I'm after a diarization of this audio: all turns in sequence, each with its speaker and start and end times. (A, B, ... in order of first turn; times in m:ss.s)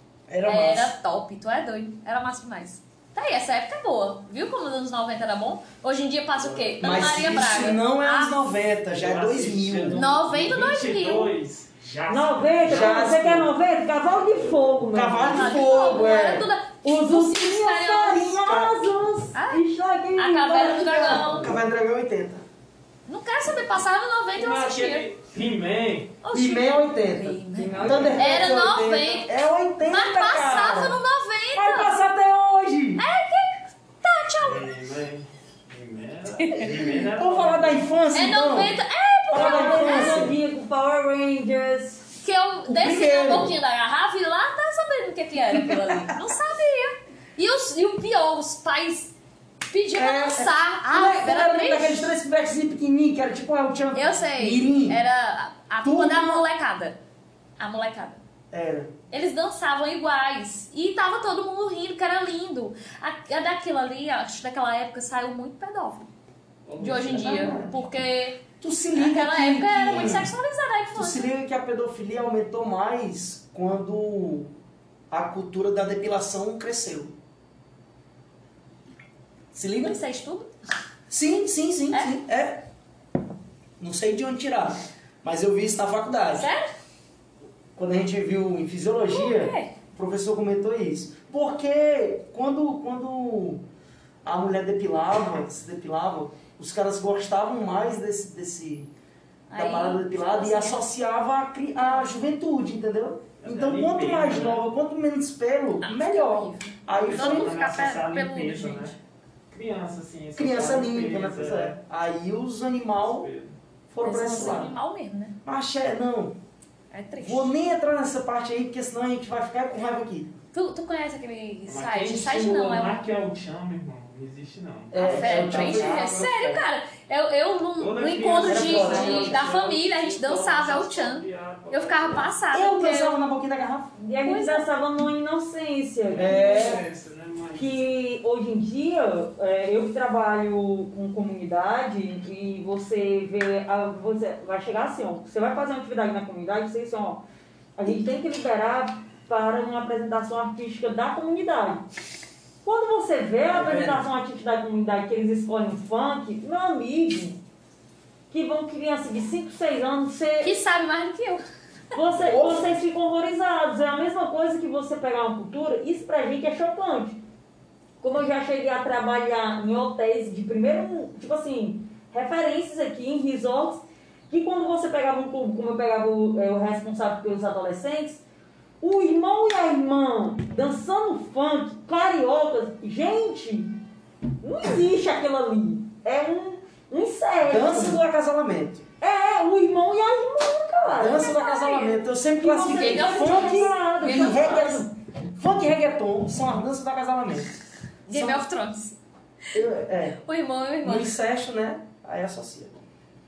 0:00.3-0:01.0 A
0:00.4-0:08.4 B
0:06.4-0:07.1 C
0:06.8-0:10.0 A
0:09.0-0:13.5 C
0:09.9-0:11.3 B
0:12.1-0:15.6 D
0:12.6-0:13.5 A
0:14.0-0:15.1 C
0:14.9-0:16.5 A
0:15.3-0:18.5 B
0:16.8-0:21.4 D
0:18.4-0:18.8 A
0:19.3-0:21.5 B
0:20.8-0:22.4 A
0:23.1-0:25.1 B
0:24.4-0:26.2 C
0:26.2-0:32.0 B
0:26.3-0:31.0 A
0:27.7-0:28.4 C
0:31.6-0:33.0 A
0:33.0-0:34.7 B
0:34.4-0:37.9 C
0:36.4-0:36.7 B
0:36.7-0:38.8 A
0:38.1-0:40.2 B
0:39.3-0:40.4 A
0:39.3-0:42.1 D
0:42.2-0:49.1 B
0:42.7-0:43.6 A
0:45.5-0:46.1 A
0:49.7-0:52.0 B
0:49.9-0:55.0 A
0:53.9-0:57.0 B
0:55.8-0:56.5 A
0:57.6-0:58.2 B
0:58.5-0:58.9 A
0:59.1-1:06.1 B
1:06.7-1:07.6 C
1:06.8-1:08.4 B
1:07.1-1:07.9 A
1:08.6-1:10.3 A
1:08.9-1:11.3 B
1:11.0-1:14.5 A
1:15.1-1:17.2 A
1:19.5-1:20.0 A
1:19.8-1:20.5 B
1:21.1-1:22.7 A
1:21.9-1:22.2 B
1:23.8-1:26.5 A
1:26.3-1:26.7 B
1:27.8-1:33.6 A
1:29.1-1:29.7 B
1:34.2-1:38.9 A
1:39.5-1:40.8 B
1:39.5-1:47.6 A
1:43.4-1:44.6 C
1:45.8-1:49.0 B
1:47.0-1:49.0 C
1:49.5-1:51.8 C
1:50.4-1:53.3 A
1:53.0-1:53.6 C
1:53.9-1:54.7 A
1:54.0-1:55.4 B
1:55.4-1:56.4 A
1:56.9-1:57.5 B
1:57.2-2:00.4 A
2:00.5-2:03.0 B
2:01.7-2:06.2 C
2:04.9-2:06.6 A
2:05.0-2:13.2 B
2:07.8-2:12.4 C
2:08.4-2:09.4 A
2:12.5-2:13.9 A
2:14.0-2:16.8 D
2:14.2-2:14.7 B
2:16.1-2:17.8 C
2:16.1-2:16.8 A
2:17.6-2:27.2 D
2:27.8-2:31.8 D
2:32.6-2:37.4 D
2:33.5-2:34.1 A
2:38.3-2:40.6 D
2:40.4-2:41.4 B
2:41.9-2:47.2 D
2:42.2-2:42.7 A
2:48.0-2:58.2 D
2:58.8-3:03.7 D
3:04.4-3:08.0 D
3:07.4-3:08.9 A
3:09.0-3:11.4 D
3:10.9-3:17.6 A
3:11.2-3:12.0 B
3:12.3-3:14.9 D
3:12.6-3:14.6 B
3:18.1-3:19.0 B
3:18.1-3:18.5 A
3:19.5-3:20.2 A
3:20.2-3:21.2 B
3:20.8-3:22.8 A